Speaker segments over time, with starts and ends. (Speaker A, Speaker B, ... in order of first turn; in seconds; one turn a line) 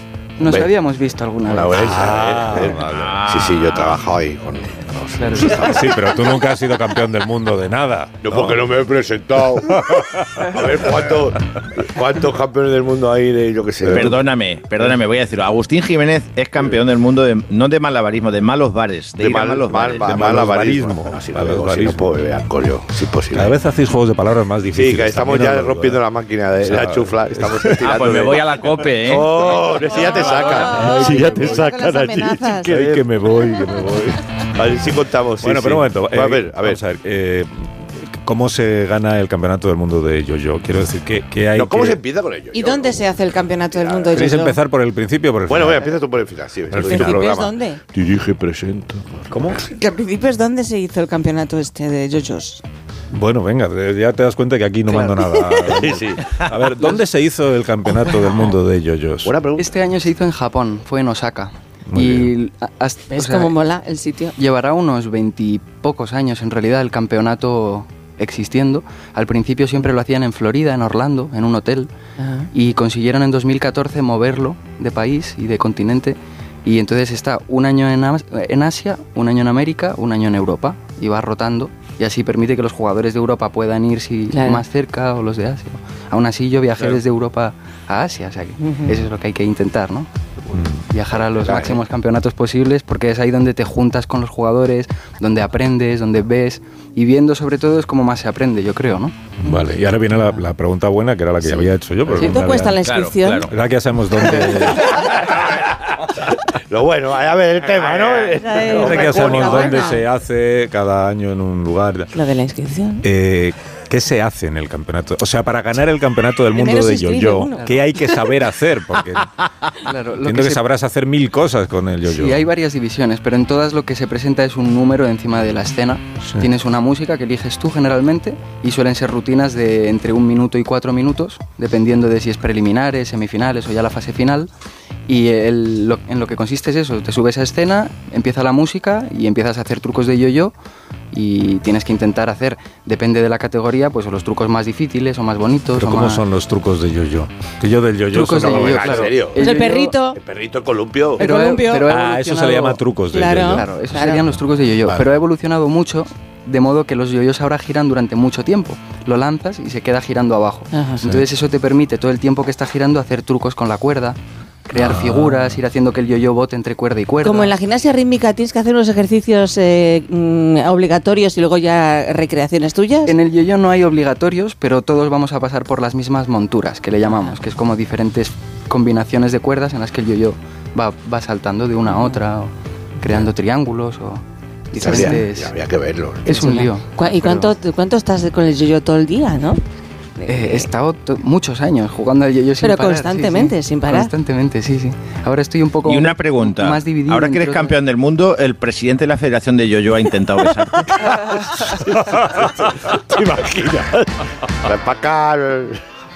Speaker A: 0.4-1.8
Speaker B: 0.4-0.7
Speaker B: 1.5-6.0
Speaker C: 1.7-3.3
Speaker D: 2.9-4.0
Speaker A: 5.2-5.6
Speaker C: 5.5-8.6
Speaker B: 8.2-14.2
Speaker C: 9.8-10.6
Speaker C: 13.8-14.1
Speaker D: 13.9-20.4
Speaker B: 19.2-23.6
Speaker C: 20.0-22.1
Speaker C: 23.3-26.0
Speaker B: 24.7-31.8
Speaker C: 26.6-28.4
Speaker D: 27.8-30.8
Speaker E: 29.9-32.8
Speaker C: 30.6-34.2
Speaker B: 32.6-33.1
Speaker B: 34.5-36.8
Speaker C: 35.4-42.0
Speaker B: 41.5-44.4
Speaker E: 42.5-44.6
Speaker C: 44.1-45.9
Speaker B: 45.5-49.6
Speaker C: 46.7-47.3
Speaker E: 46.8-47.8
Speaker C: 49.3-49.7
Speaker E: 49.6-52.6
Speaker C: 53.1-59.4
Speaker B: 55.8-56.4
Speaker B: 59.2-59.7
Speaker A: 59.6-63.6
Speaker C: 61.9-62.3
Speaker E: 63.1-64.3
Speaker A: 64.4-71.9
Speaker E: 72.2-72.5
Speaker A: 72.5-90.1
Speaker E: 84.3-84.6
Speaker E: 88.6-89.0
Speaker C: 90.5-90.8
Speaker A: 90.9-99.2
Speaker B: 91.1-91.8
Speaker C: 99.4-102.8
Speaker E: 102.1-103.5
Speaker D: 102.8-103.5
Speaker C: 103.5-105.0
Speaker B: 105.0-105.6
Speaker B: 106.3-109.8
Speaker E: 108.4-110.1
Speaker C: 108.7-112.1
Speaker E: 112.1-113.0
Speaker C: 113.0-119.3
Speaker E: 116.5-117.6
Speaker A: 119.8-120.6
Speaker C: 120.2-122.4
Speaker A: 122.1-134.5
Speaker C: 126.2-126.5
Speaker A: 135.1-140.5
Speaker A: 141.1-146.2
Speaker C: 145.7-149.2
Speaker A: 148.1-150.0
Speaker B: 148.4-149.4
Speaker E: 149.4-150.2
Speaker B: 150.2-151.2
Speaker E: 151.2-151.9
Speaker A: 151.2-152.8
Speaker C: 151.9-153.7
Speaker E: 153.1-154.2
Speaker A: 153.5-167.5
Speaker E: 160.7-161.1
Speaker C: 161.0-161.3
Speaker C: 164.8-165.6
Speaker E: 167.2-173.2
Speaker A: 173.1-185.5
Speaker E: 181.9-182.2
Speaker B: 184.8-186.4
Speaker A: 186.2-187.5
Speaker E: 186.3-189.6
Speaker E: 190.2-190.7
Speaker A: 190.3-197.8
Speaker E: 192.6-194.1
Speaker D: 195.8-201.1
Speaker B: 201.6-205.8